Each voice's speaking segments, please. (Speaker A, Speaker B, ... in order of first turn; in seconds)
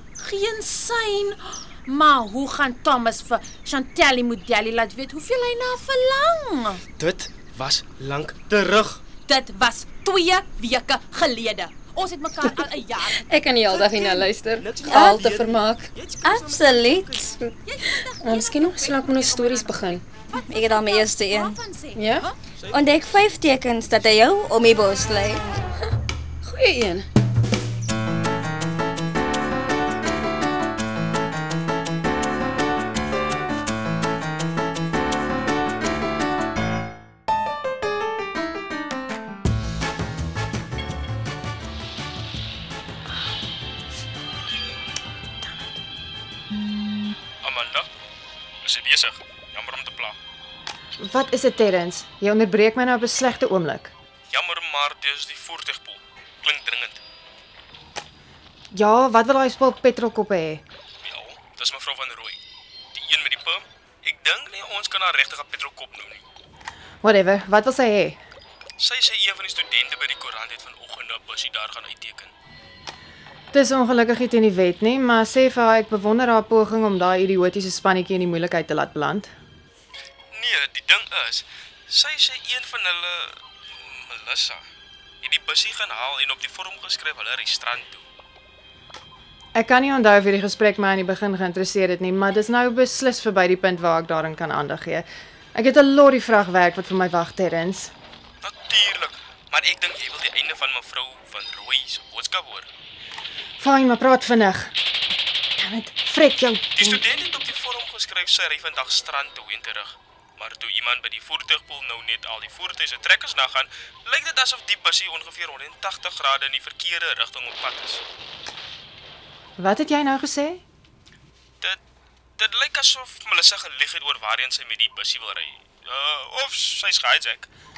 Speaker A: 0.2-6.8, 9.2-13.2, 17.6-22.4
Speaker B: 7.0-9.0, 13.8-17.4, 22.6-22.9, 47.4-47.9, 48.6-50.1, 54.3-57.0, 61.0-62.4, 62.9-66.2, 68.8-72.3, 80.3-84.6, 85.2-88.0, 98.4-102.7, 106.7-118.0, 122.4-127.5
Speaker C: 13.1-15.9, 18.2-20.0, 21.9-22.3, 26.4-27.1
Speaker D: 14.9-15.2, 16.2-17.4, 20.3-21.6, 22.7-25.6
Speaker E: 51.0-53.9, 58.7-60.6, 67.0-68.2, 73.5-79.3, 89.5-97.9, 103.6-104.7, 105.6-107.0, 119.6-120.6